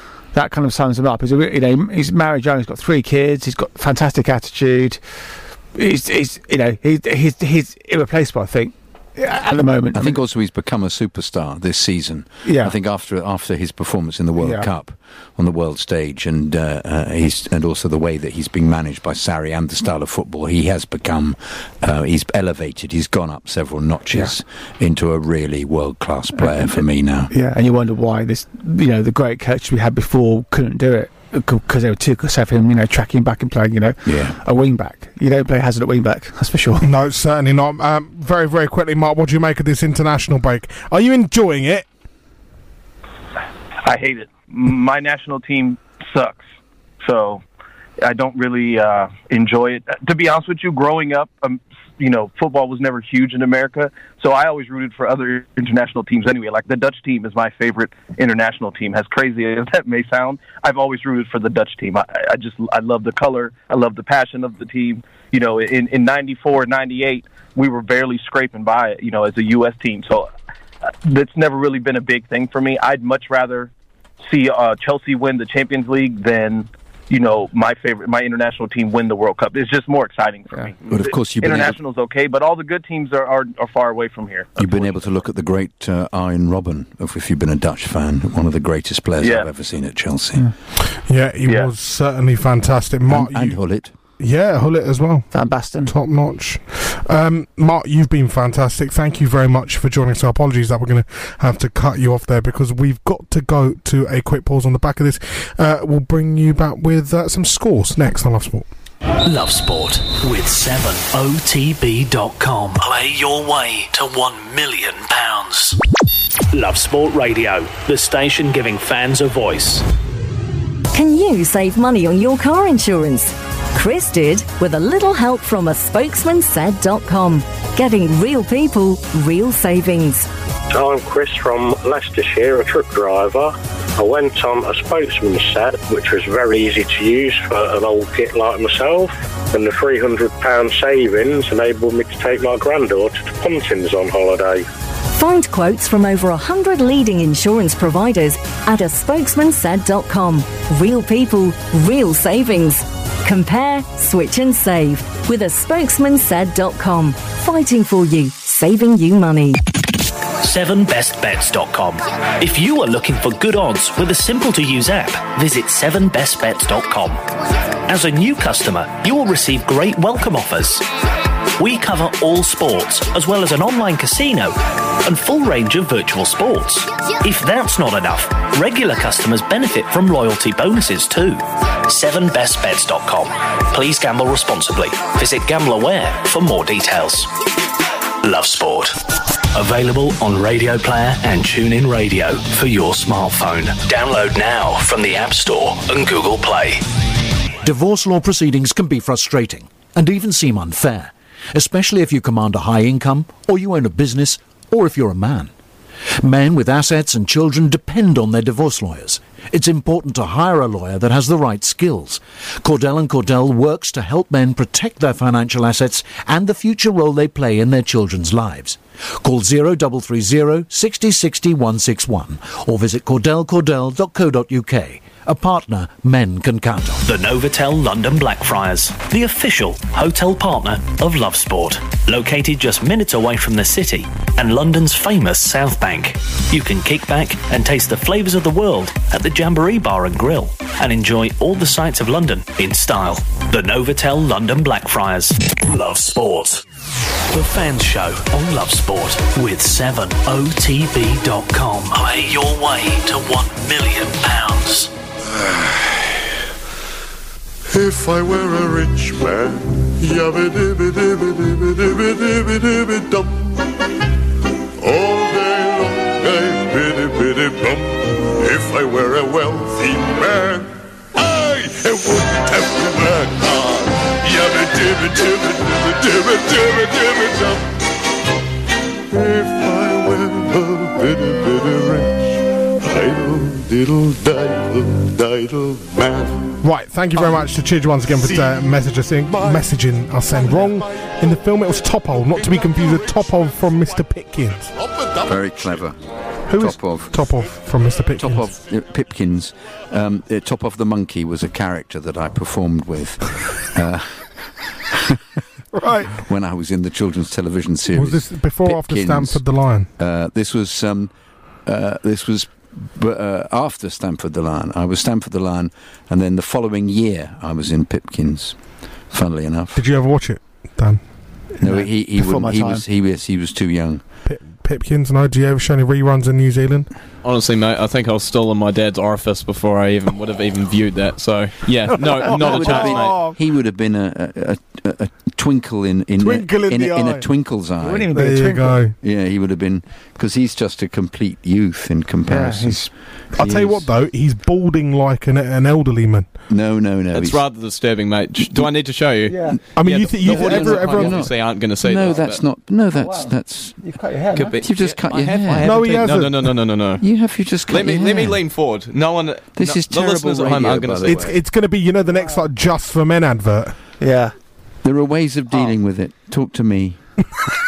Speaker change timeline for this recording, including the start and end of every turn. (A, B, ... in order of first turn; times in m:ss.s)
0:00.3-0:05.0 A
0:05.8-0:10.2 A
0:09.9-0:27.3 B
0:12.4-0:12.8 A
0:14.4-0:14.7 A
0:27.3-0:36.9 A
0:34.0-0:34.4 B
0:36.8-0:41.9 C
0:43.8-0:46.4 D
0:47.0-0:47.4 D
0:48.0-1:10.3 D
1:11.0-1:24.9 D
1:20.9-1:21.8 B
1:24.6-1:30.5 B
1:29.2-1:29.5 D
1:31.0-1:33.6 C
1:33.1-1:33.9 B
1:34.2-1:35.3 C
1:35.3-1:35.9 A
1:35.8-1:48.7 C
1:49.2-1:55.8 E
1:56.5-1:59.8 E
2:00.9-2:10.3 F
2:10.7-2:24.7 G
2:25.1-2:39.6 F
2:40.4-2:47.2 E
2:47.9-2:50.9 E
2:51.6-3:07.3 E
3:08.2-3:09.0 E
3:09.5-3:16.8 E
3:17.6-3:25.5 H
3:26.2-3:47.0 H
3:47.0-4:06.6 E
4:07.3-4:14.9 E
4:17.8-4:19.4 I
4:20.0-4:23.2 I
4:24.9-4:27.9 I
4:28.4-4:30.6 I
4:31.6-4:37.6 I
4:39.3-4:42.1 I
4:43.1-4:46.3 I
4:46.6-4:54.7 C
4:55.3-4:56.0 B
4:56.5-4:58.5 C
4:56.5-4:57.2 B
4:58.2-5:04.3 B
5:04.9-5:05.2 B
5:05.8-5:06.1 C
5:06.1-5:09.4 B
5:07.9-5:09.9 C
5:10.0-5:11.1 B
5:11.7-5:18.6 B
5:19.1-5:19.8 B
5:19.8-5:21.0 C
5:21.6-5:22.8 A
5:21.6-5:24.0 B
5:24.3-5:26.9 C
5:27.2-5:33.2 J
5:32.0-5:33.4 C
5:32.0-5:38.1 B
5:36.2-5:37.3 C
5:37.8-5:38.8 A
5:38.1-5:39.0 C
5:39.0-5:43.9 B
5:42.3-5:42.9 A
5:43.4-5:46.3 C
5:46.5-5:47.4 B
5:47.1-5:52.4 J
5:48.4-5:48.7 B
5:49.3-5:49.6 A
5:49.8-5:51.3 C
5:50.2-5:50.7 A
5:50.4-5:53.8 B
5:52.9-5:54.6 A
5:54.3-5:57.0 J
5:54.6-5:55.8 B
5:55.6-5:56.5 C
5:57.0-5:58.4 B
5:57.7-6:01.4 J
5:59.5-6:01.3 B
6:01.0-6:03.8 C
6:04.0-6:04.3 A
6:04.8-6:07.0 B